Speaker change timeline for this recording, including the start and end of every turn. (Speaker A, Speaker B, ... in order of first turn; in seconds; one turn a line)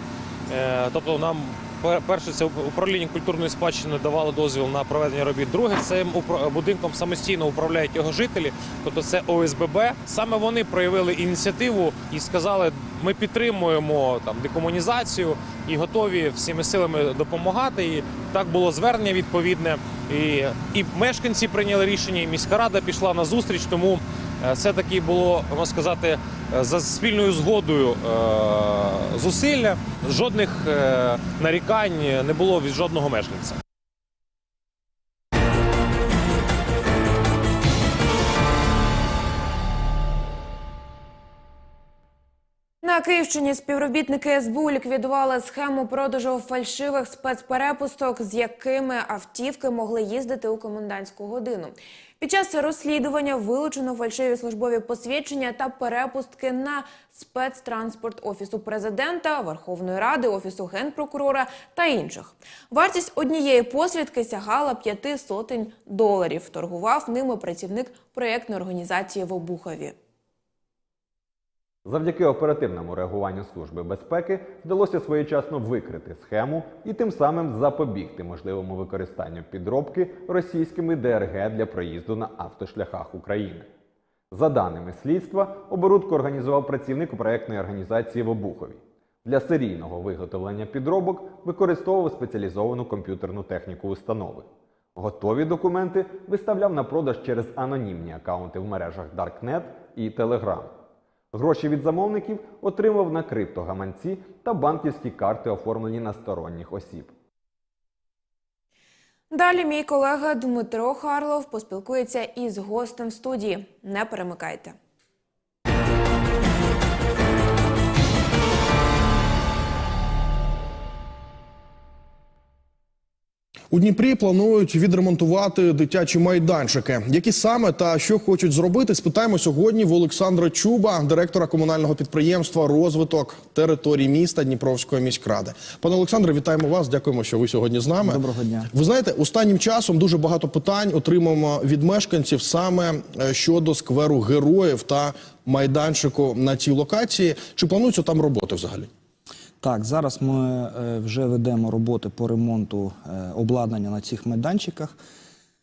Speaker A: 0.5-33.6
Speaker B: 42.8-69.9
Speaker C: 71.8-83.7
Speaker C: 84.3-100.8
Speaker C: 101.3-107.1
Speaker B: 109.3-114.7
Speaker D: 123.7-138.2
Speaker E: 138.0-138.7
Speaker D: 138.7-148.9
Speaker E: 149.6-154.9